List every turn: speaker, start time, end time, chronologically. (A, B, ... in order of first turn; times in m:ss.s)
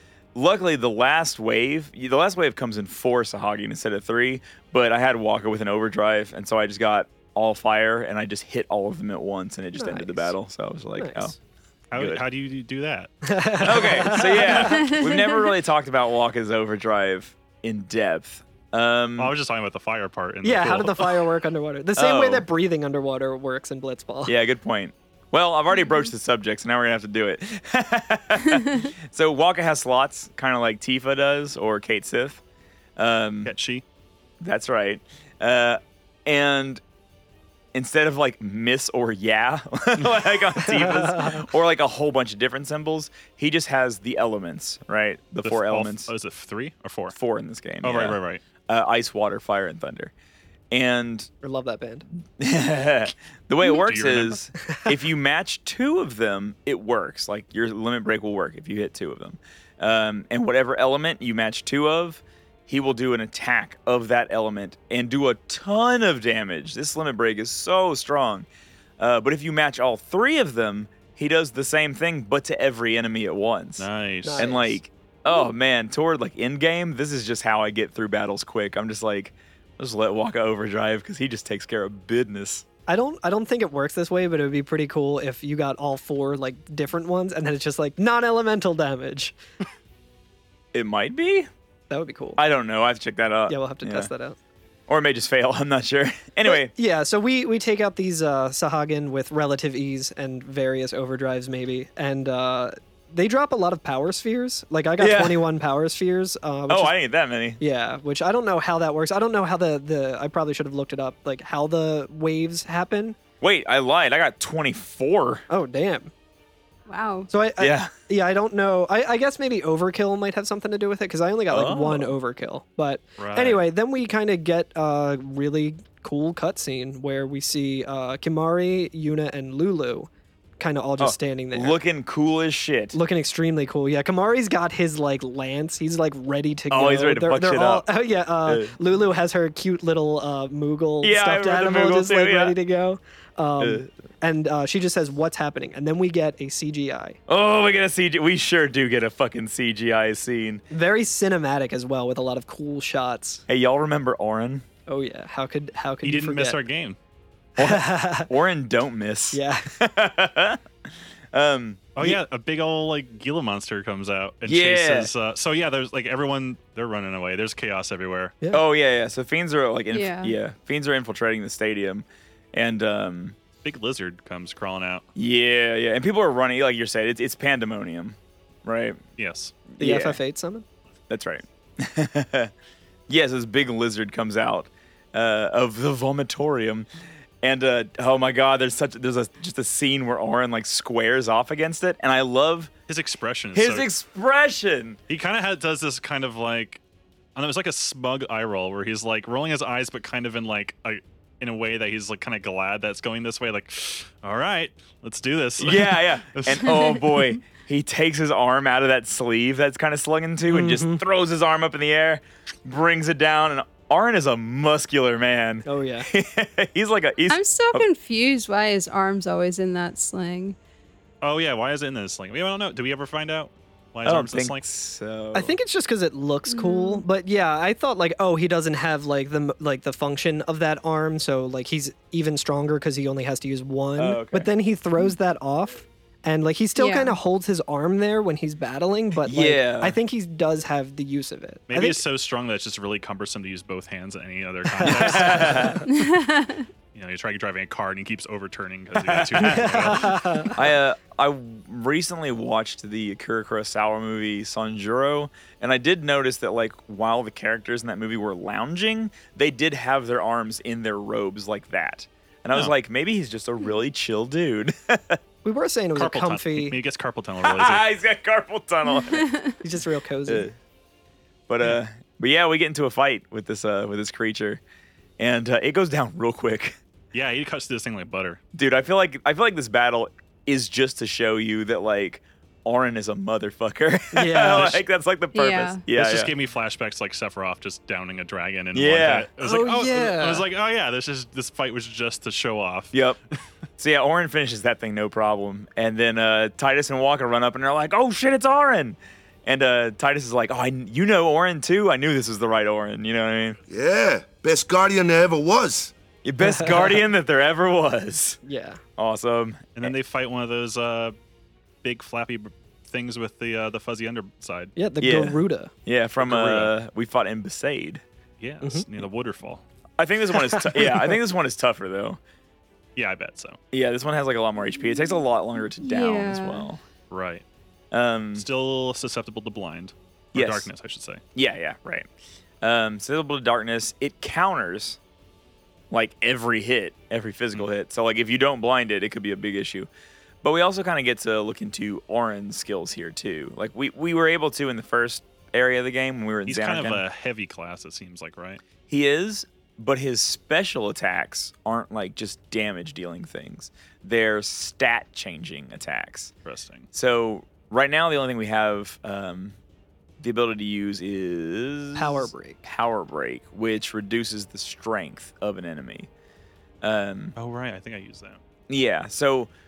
0:00.3-0:11.4 A
0:09.7-0:10.3 B
0:11.0-0:11.3 B
0:11.9-0:14.0 C
0:11.9-0:12.2 A
0:13.3-0:14.8 B
0:13.6-0:19.3 A
0:14.5-0:15.5 D
0:19.2-0:21.2 C
0:20.4-0:24.3 B
0:22.0-0:22.4 A
0:24.2-0:32.4 A
0:33.0-0:33.5 A
0:33.4-0:33.8 C
0:34.4-0:36.8 A
0:37.7-0:46.1 A
0:40.6-0:41.4 B
0:45.4-0:47.2 C
0:47.1-0:50.1 A
0:47.8-0:48.4 C
0:50.7-0:51.3 A
0:51.4-0:52.0 B
0:52.4-1:08.5 A
0:53.7-0:54.4 C
1:09.0-1:22.6 A
1:13.8-1:14.5 C
1:14.2-1:14.8 B
1:22.9-1:29.4 B
1:30.7-1:31.5 A
1:31.9-1:32.4 B
1:32.4-1:34.1 A
1:33.5-1:34.4 B
1:34.9-1:36.7 A
1:36.4-1:46.9 B
1:45.0-1:45.5 A
1:46.7-1:47.6 A
1:47.6-1:53.2 B
1:53.4-1:55.4 A
1:55.5-1:56.1 B
1:56.9-1:57.3 D
1:57.3-2:11.8 B
1:57.6-1:57.9 A
2:01.5-2:02.1 A
2:03.2-2:03.6 C
2:11.0-2:13.0 A
2:12.9-2:27.2 B
2:16.7-2:17.9 A
2:18.4-2:18.7 A
2:21.0-2:22.5 A
2:23.6-2:23.9 A
2:27.3-2:30.6 A
2:30.7-2:33.4 B
2:33.5-2:34.6 A
2:34.9-2:36.6 B
2:36.0-2:37.0 C
2:37.6-2:40.6 A
2:37.6-2:38.3 B
2:39.3-2:39.7 B
2:41.3-2:42.2 A
2:42.0-2:48.3 C
2:44.4-2:45.1 A
2:48.5-2:53.4 A
2:49.9-2:50.4 D
2:53.6-2:55.0 C
2:55.2-2:59.0 A
2:59.2-2:59.6 C
2:59.8-3:00.2 A
2:59.8-3:00.6 B
3:01.1-3:02.5 A
3:03.1-3:06.9 A
3:07.4-3:12.7 A
3:12.9-3:13.9 C
3:13.5-3:15.0 A
3:15.1-3:16.8 C
3:17.4-3:27.0 C
3:25.6-3:37.8 A
3:30.5-3:31.0 B
3:35.6-3:36.1 B
3:37.3-3:40.6 D
3:41.2-3:44.6 C
3:44.0-3:45.6 A
3:45.3-4:02.0 B
3:46.5-3:47.0 D
3:54.0-3:54.5 A
3:56.8-3:57.2 D
3:59.2-4:00.0 A
4:01.7-4:05.8 C
4:04.8-4:05.8 B
4:04.8-4:05.8 A
4:05.9-4:06.7 D
4:06.9-4:10.5 C
4:08.9-4:25.2 A
4:09.4-4:10.6 B
4:25.4-4:26.8 B
4:26.0-4:27.8 C
4:27.4-4:29.3 A
4:28.9-4:29.6 D
4:29.6-4:30.5 B
4:30.3-4:30.5 A
4:31.5-4:34.6 A
4:35.2-4:36.8 A
4:37.1-4:38.4 C
4:38.5-4:46.3 A
4:44.1-4:44.8 B
4:45.3-4:45.8 D
4:45.9-4:53.4 C
4:48.7-4:49.3 A
4:49.4-4:50.4 B
4:52.9-4:53.2 A
4:53.8-5:03.6 A
5:03.7-5:05.9 E
5:06.2-5:08.4 A
5:06.4-5:06.9 B
5:08.4-5:08.8 B
5:09.0-5:09.9 A
5:09.8-5:11.1 C
5:11.8-5:14.7 C
5:14.8-5:15.7 B
5:15.0-5:18.0 A
5:16.2-5:16.7 C
5:18.4-5:19.6 C
5:20.0-5:22.2 A
5:20.4-5:21.1 B
5:23.0-5:23.6 C
5:23.7-5:26.8 A
5:25.8-5:26.7 D
5:27.1-5:27.4 C
5:27.9-5:28.5 A
5:28.4-5:31.2 C
5:30.3-5:30.7 A
5:31.3-5:32.1 A
5:32.6-5:35.0 A
5:35.9-5:39.9 A
5:40.4-5:47.0 A
5:46.4-5:48.6 C
5:48.9-5:56.3 A
5:56.4-5:56.9 C
5:56.9-5:59.6 A
6:00.2-6:06.1 A
6:01.9-6:02.6 B
6:06.8-6:07.4 A
6:07.4-6:08.4 C
6:08.7-6:09.5 A